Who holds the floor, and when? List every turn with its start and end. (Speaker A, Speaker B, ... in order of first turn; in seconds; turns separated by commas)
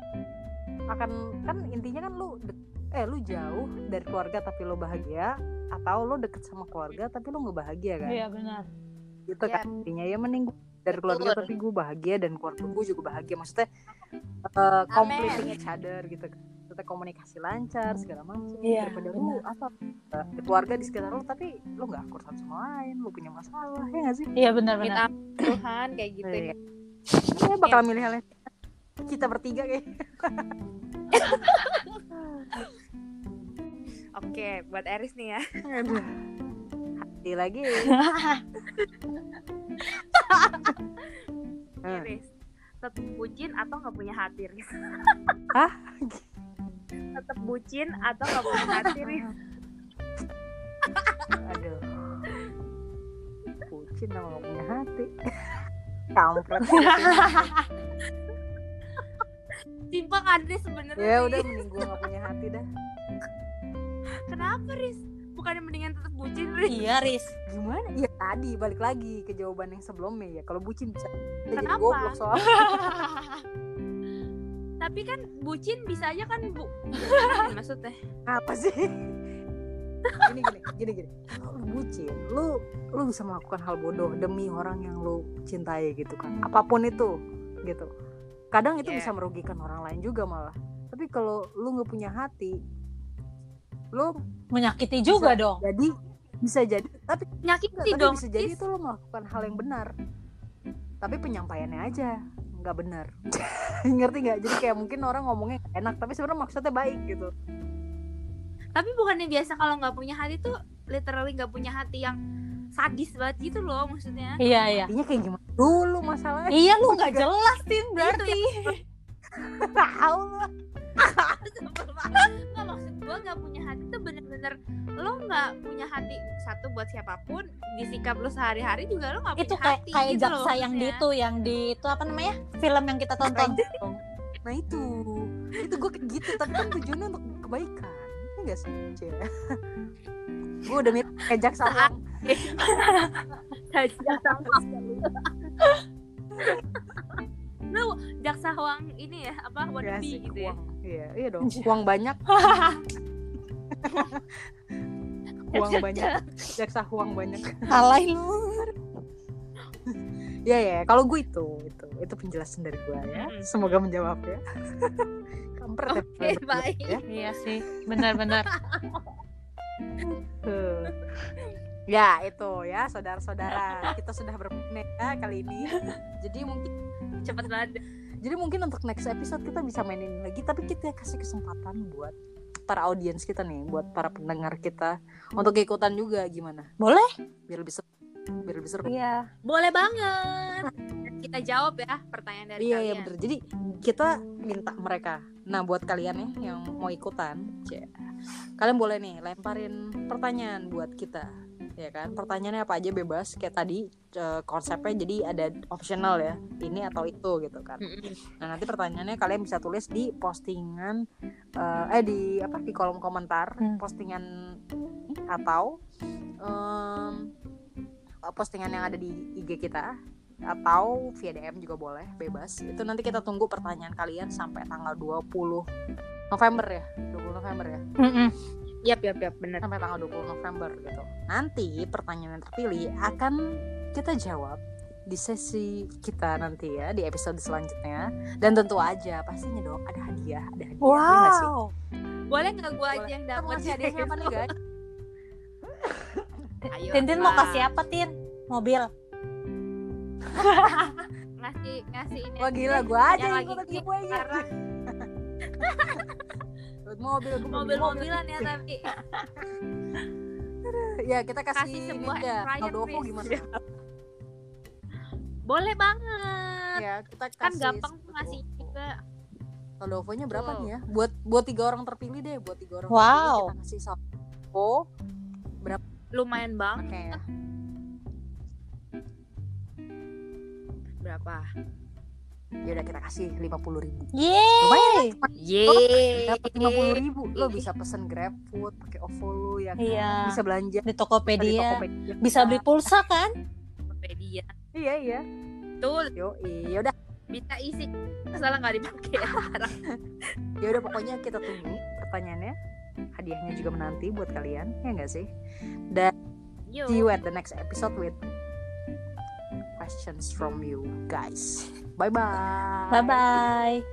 Speaker A: 0.9-8.2, Speaker B: 8.1-8.7, Speaker A: 9.3-13.7, Speaker C: 9.4-9.7, Speaker C: 10.9-11.5, Speaker A: 14.5-24.3, Speaker C: 14.9-15.6, Speaker B: 18.6-19.4, Speaker B: 24.4-25.0, Speaker C: 24.8-26.5, Speaker A: 26.2-26.5, Speaker A: 27.2-28.3, Speaker A: 29.1-30.4, Speaker C: 31.1-32.0, Speaker A: 32.2-32.6, Speaker C: 34.2-35.4, Speaker A: 35.7-36.1, Speaker A: 37.1-37.9, Speaker B: 37.9-38.4, Speaker C: 41.8-42.3, Speaker C: 42.8-44.7, Speaker A: 45.5-46.2, Speaker C: 47.1-49.2, Speaker B: 48.5-48.9, Speaker A: 48.8-49.3, Speaker C: 51.0-51.3, Speaker A: 51.4-51.8, Speaker A: 53.7-55.5, Speaker A: 56.1-57.5, Speaker B: 56.7-57.6, Speaker C: 59.9-62.0, Speaker A: 61.0-62.6, Speaker C: 64.3-67.1, Speaker B: 66.7-67.3, Speaker A: 67.5-72.8, Speaker C: 71.6-72.2, Speaker B: 72.4-73.4, Speaker C: 74.8-77.9, Speaker B: 77.0-77.4, Speaker A: 78.3-78.9, Speaker A: 80.2-87.1, Speaker A: 88.5-92.6, Speaker C: 88.8-89.1, Speaker B: 94.5-95.6, Speaker A: 95.1-97.3, Speaker C: 97.4-98.6, Speaker A: 97.8-99.9, Speaker A: 101.0-107.3, Speaker C: 108.7-112.2, Speaker C: 112.7-114.4, Speaker B: 114.4-114.9, Speaker A: 114.9-117.3, Speaker B: 116.5-118.8, Speaker C: 118.0-118.7, Speaker A: 119.4-120.5, Speaker C: 121.0-131.0, Speaker B: 129.3-133.6, Speaker C: 133.3-133.8, Speaker A: 133.8-139.2, Speaker C: 136.3-136.8, Speaker A: 140.6-142.0, Speaker C: 141.6-142.9, Speaker B: 142.6-143.2, Speaker C: 143.7-145.8, Speaker C: 146.4-147.2, Speaker C: 147.7-150.6, Speaker A: 149.8-152.2, Speaker B: 151.4-151.7, Speaker B: 152.3-152.8, Speaker A: 153.8-154.2, Speaker A: 155.5-157.6, Speaker C: 155.5-156.2, Speaker B: 157.7-158.7, Speaker A: 160.4-165.1, Speaker C: 163.1-163.8, Speaker A: 165.6-167.0, Speaker C: 165.9-167.0, Speaker B: 167.1-168.4, Speaker C: 168.4-169.1, Speaker A: 170.0-170.9, Speaker A: 171.9-176.7, Speaker C: 177.2-177.8, Speaker A: 178.2-182.1, Speaker A: 182.7-186.7, Speaker B: 186.8-187.1, Speaker A: 187.5-187.8, Speaker A: 188.5-188.9, Speaker B: 188.8-189.2, Speaker C: 189.4-193.1, Speaker A: 192.6-197.9, Speaker A: 198.6-201.3, Speaker A: 201.8-207.8, Speaker C: 207.8-208.2, Speaker A: 208.4-211.0, Speaker A: 211.6-214.2, Speaker A: 215.3-215.7, Speaker A: 216.4-217.2, Speaker A: 218.3-219.8, Speaker A: 220.5-225.6, Speaker A: 226.3-227.8, Speaker B: 228.0-228.3, Speaker C: 228.8-229.6, Speaker A: 229.6-233.4, Speaker A: 233.9-241.5, Speaker B: 240.8-241.7, Speaker C: 242.3-244.5, Speaker A: 242.9-244.5, Speaker C: 246.7-247.7, Speaker B: 246.9-248.9, Speaker B: 250.3-251.0, Speaker C: 251.4-254.4, Speaker A: 252.4-255.1, Speaker C: 255.6-256.2, Speaker A: 256.9-258.4, Speaker C: 257.5-258.9, Speaker A: 260.6-263.5, Speaker C: 261.5-263.5, Speaker C: 265.5-266.8, Speaker A: 266.8-268.8, Speaker C: 267.4-268.9, Speaker A: 269.8-274.0, Speaker C: 270.3-270.7, Speaker B: 272.9-273.5, Speaker A: 274.5-274.8, Speaker C: 276.1-277.2, Speaker A: 276.8-277.2, Speaker C: 281.0-281.5, Speaker A: 282.6-284.1, Speaker B: 284.1-285.1, Speaker A: 284.6-290.8, Speaker C: 285.5-287.6, Speaker B: 289.8-293.3, Speaker A: 291.4-292.4, Speaker C: 292.4-292.6, Speaker C: 293.9-294.5, Speaker A: 294.7-295.2, Speaker C: 295.8-296.1, Speaker A: 296.1-296.9, Speaker C: 297.3-299.8, Speaker A: 300.6-302.5, Speaker A: 303.2-305.2, Speaker C: 306.7-307.1, Speaker A: 306.9-308.2, Speaker A: 309.8-313.3, Speaker B: 312.9-313.8